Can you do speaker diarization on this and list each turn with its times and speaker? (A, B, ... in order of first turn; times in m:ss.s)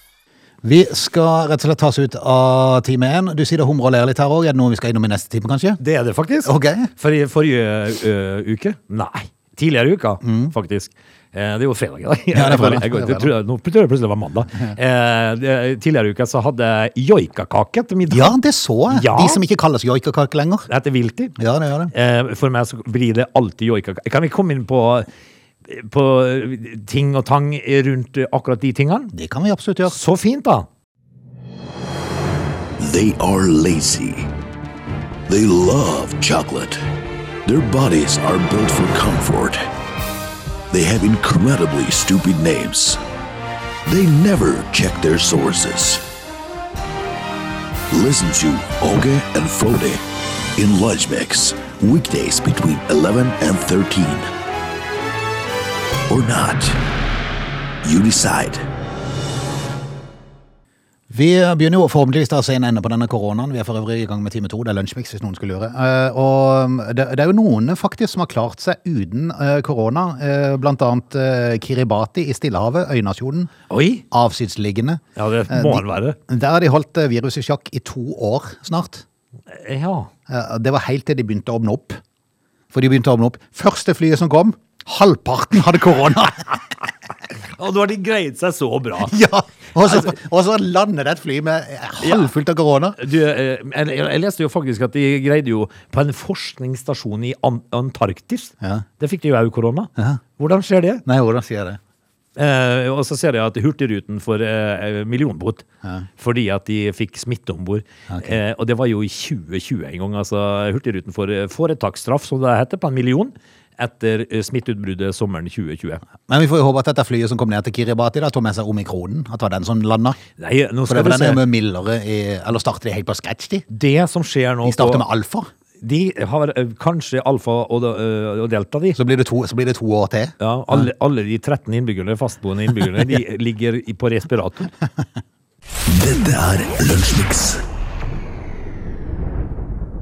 0:00.6-0:05.8 A
0:05.8-0:18.4 B
0:06.4-0:06.9 A
0:10.2-0:10.5 A
0:12.3-0:13.3 A
0:18.1-0:20.7 A
0:18.9-0:19.4 B
0:20.7-0:21.4 B
0:21.4-0:21.9 A
0:21.9-0:25.1 B
0:25.6-0:29.1 B
0:29.1-0:30.0 A
0:29.9-0:30.7 B
0:32.8-0:34.3 C
0:35.3-0:36.8 C
0:37.4-0:39.6 C
0:40.7-0:43.0 C
0:43.9-0:46.0 C
0:47.9-0:50.0 C
0:50.6-0:54.3 C
0:56.1-0:56.8 C
0:57.8-0:58.6 C
1:01.1-1:13.5 A
1:13.7-1:14.0 B
1:14.1-1:19.0 A
1:15.2-1:16.2 B
1:19.6-1:20.1 B
1:20.3-1:22.0 A
1:22.7-1:26.6 A
1:27.5-1:29.2 B
1:29.0-1:33.0 A
1:29.9-1:30.1 B
1:32.0-1:32.3 B
1:33.0-1:41.0 B
1:41.0-1:41.8 A
1:42.4-1:45.6 B
1:46.2-1:56.0 B
1:48.1-1:48.4 A
1:56.3-2:00.2 A
2:00.4-2:01.4 B
2:00.9-2:03.6 A
2:03.7-2:05.0 B
2:04.6-2:05.5 A
2:05.8-2:09.0 B
2:09.0-2:10.9 A
2:10.4-2:14.7 B
2:15.9-2:17.6 C